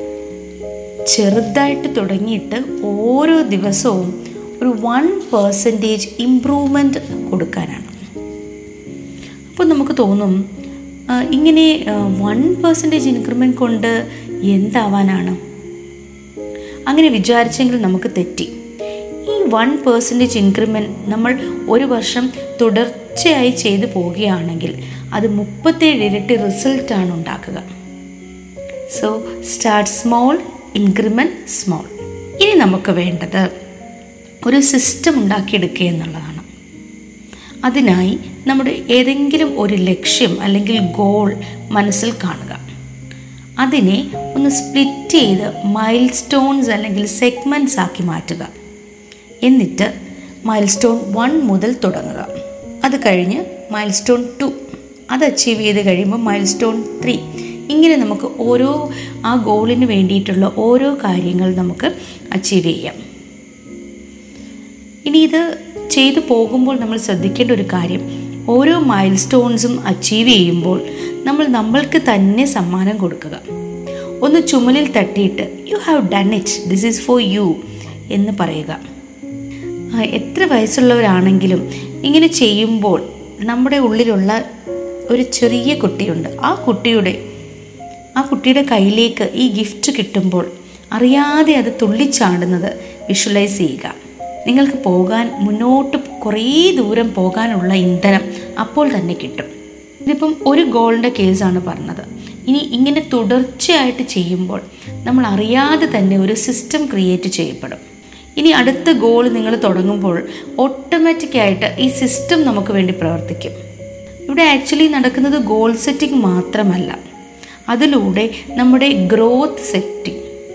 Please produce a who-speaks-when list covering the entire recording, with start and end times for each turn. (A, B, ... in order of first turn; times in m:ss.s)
0:01.1-0:08.0 A
0:09.5-0:10.4 A
0:11.2-0:13.9 A
0:14.5-0:15.4 A
0:16.9-0:18.5 A
0:19.2-0:27.6 A
0:28.9-0:33.5 A
0:34.4-0:36.4 A
0:37.6-0:42.6 A
0:43.6-0:48.5 A
0:49.4-0:49.9 A
0:50.5-0:52.3 A
0:52.8-0:54.5 A
0:55.1-1:03.0 A
1:05.0-1:13.4 A
1:14.2-1:17.6 A
1:18.1-1:18.8 A
1:20.0-1:24.4 A
1:25.1-1:27.2 A
1:28.2-1:39.5 A
1:40.0-1:47.8 A
1:48.4-1:53.5 A
1:54.3-1:57.0 A
1:57.7-2:00.2 A